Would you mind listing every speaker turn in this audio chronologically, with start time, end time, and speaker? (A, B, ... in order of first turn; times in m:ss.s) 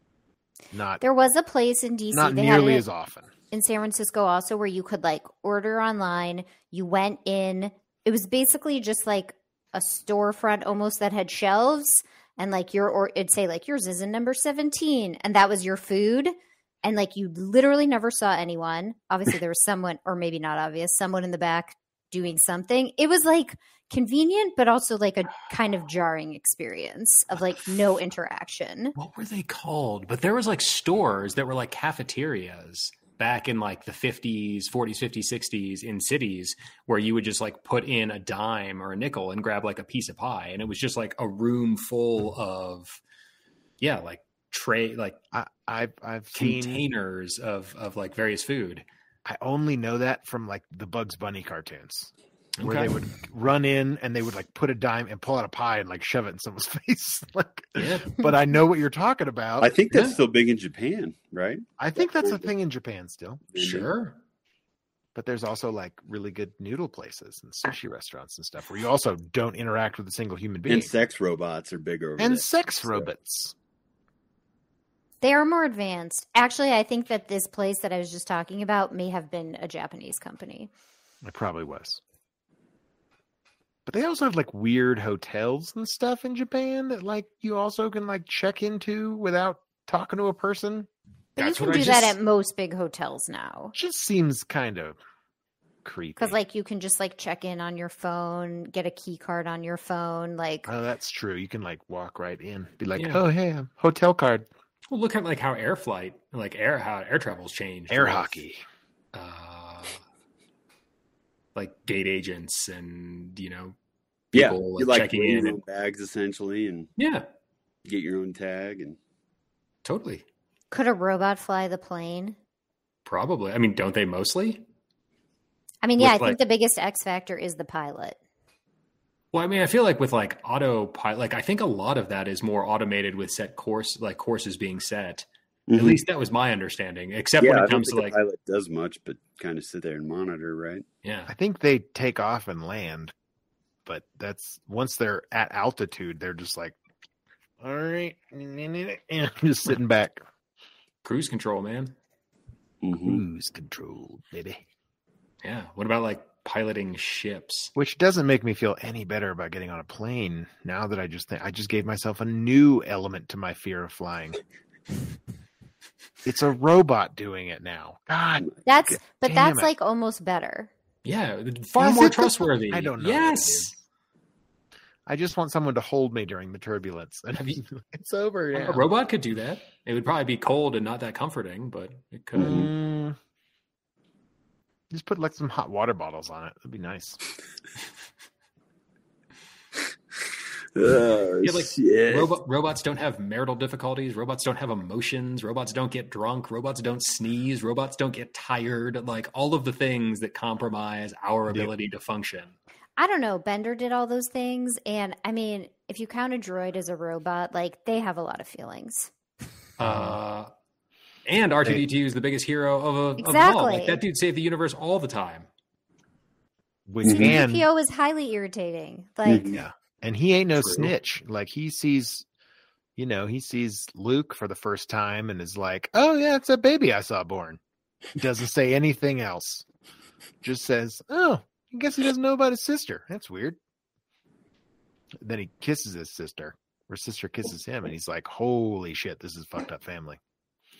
0:00.7-0:01.0 A
0:01.0-0:02.8 B
0:02.1-0:03.3 A
0:03.5-0:28.9 B
0:29.0-0:43.0 C
0:43.8-0:45.2 C
0:45.3-0:46.8 A
0:46.3-0:48.8 C
0:49.2-0:59.7 A
0:52.6-0:53.0 C
0:57.8-0:58.2 C
0:59.6-1:02.5 D
0:59.9-1:00.2 C
1:01.8-1:03.4 A
1:03.5-1:03.9 D
1:03.6-1:04.2 C
1:05.1-1:10.9 A
1:10.7-1:13.1 D
1:12.2-1:13.5 A
1:15.2-1:20.7 B
1:21.2-1:22.0 A
1:23.8-1:30.9 A
1:31.4-1:32.2 C
1:31.4-1:33.7 B
1:31.6-1:32.0 A
1:33.7-1:35.0 A
1:35.8-1:36.4 A
1:36.2-1:40.7 B
1:40.6-1:44.5 A
1:43.0-1:43.2 C
1:44.9-1:48.4 C
1:47.9-1:48.6 A
1:49.1-1:50.0 C
1:51.5-1:53.7 C
1:54.3-1:55.6 C
1:54.3-1:56.9 D
1:57.0-1:57.2 C
1:57.8-1:59.0 D
1:59.8-2:00.2 C
2:00.7-2:02.4 B
2:03.0-2:04.6 C
2:05.8-2:08.2 B
2:06.0-2:06.4 C
2:09.3-2:18.2 C
2:15.7-2:16.0 D
2:17.4-2:20.8 D
2:21.0-2:21.3 C
2:21.3-2:23.1 A
2:23.8-2:26.8 A
2:27.6-2:30.2 A
2:31.0-2:31.9 C
2:32.8-2:33.2 D
2:33.0-2:34.6 A
2:35.4-2:37.7 C
2:37.7-2:44.4 A
2:46.2-2:49.7 A
2:48.6-2:50.7 B
2:51.0-2:53.7 C
2:51.8-2:53.8 A
2:55.1-2:58.9 A
2:58.5-3:02.7 C
3:02.3-3:03.2 A
3:02.4-3:02.7 D
3:04.9-3:07.2 A
3:10.7-3:12.3 D
3:11.4-3:22.5 C
3:23.0-3:29.1 B
3:29.8-3:30.5 C
3:29.8-3:30.2 A
3:31.2-3:35.5 C
3:33.2-3:34.0 B
3:36.9-3:37.7 A
3:37.0-3:37.4 D
3:37.1-3:39.5 B
3:39.2-3:39.6 D
3:39.5-3:42.2 A
3:40.6-3:40.9 C
3:43.0-3:47.6 A
3:48.2-3:49.6 A
3:50.4-3:53.6 A
3:55.2-4:00.2 A